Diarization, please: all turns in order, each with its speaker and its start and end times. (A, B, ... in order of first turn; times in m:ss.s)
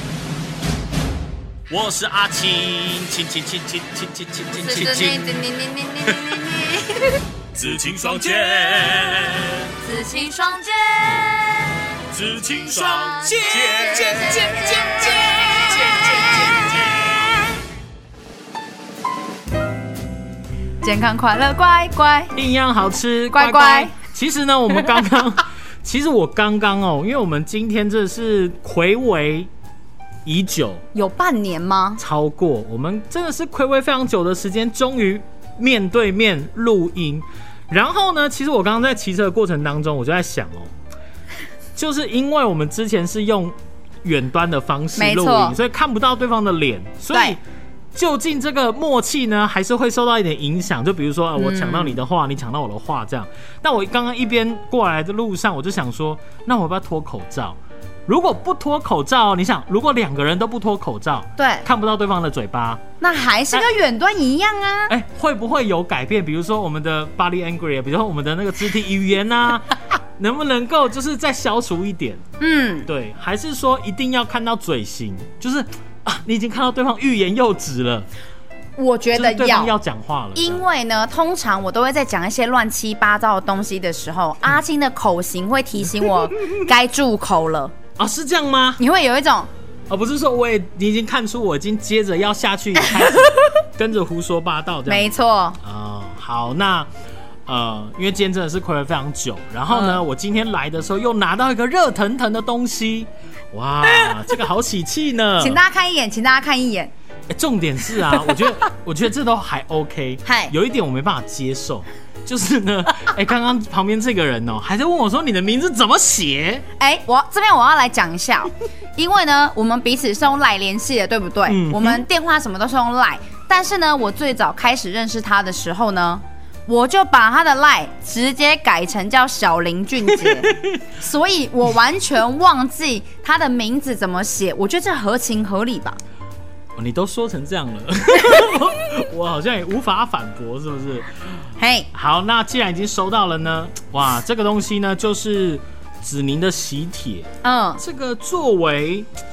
0:01.7-0:05.3 A
0:04.5-0:07.2 B
0:07.5-0:09.7 A
0:09.8-0:11.8 B
0:12.1-0:16.6 A
0:12.8-0:17.6 B
0:20.8-0:22.3 B
0:22.3-0:29.5 A
0:23.3-0:23.9 B
0:30.2-0:30.8 A
0:30.9-0:32.0 B
0:32.0-0:40.7 A
0:41.8-0:47.4 A
0:45.0-0:45.6 B
0:47.1-0:47.4 B
0:47.9-1:02.8 A
0:51.4-0:52.0 B
1:01.4-1:01.6 B
1:03.0-1:04.9 B
1:04.9-1:12.2 A
1:12.4-1:12.9 B
1:12.8-1:18.1 A
1:18.8-1:19.7 B
1:19.1-1:20.6 A
1:20.3-1:27.7 B
1:28.0-1:28.8 A
1:28.8-1:29.5 B
1:29.9-1:36.9 A
1:32.8-1:33.4 B
1:34.9-1:35.6 B
1:37.5-1:45.6 A
1:39.7-1:40.0 B
1:43.9-1:44.2 B
1:45.4-1:46.9 B
1:47.3-1:56.6 A
1:48.1-1:48.5 B
1:50.2-1:50.5 B
1:56.8-2:16.0 B
2:01.5-2:02.0 A
2:10.1-2:10.8 A
2:16.8-2:29.1 A
2:18.3-2:18.6 B
2:21.6-2:21.9 B
2:27.4-2:27.8 B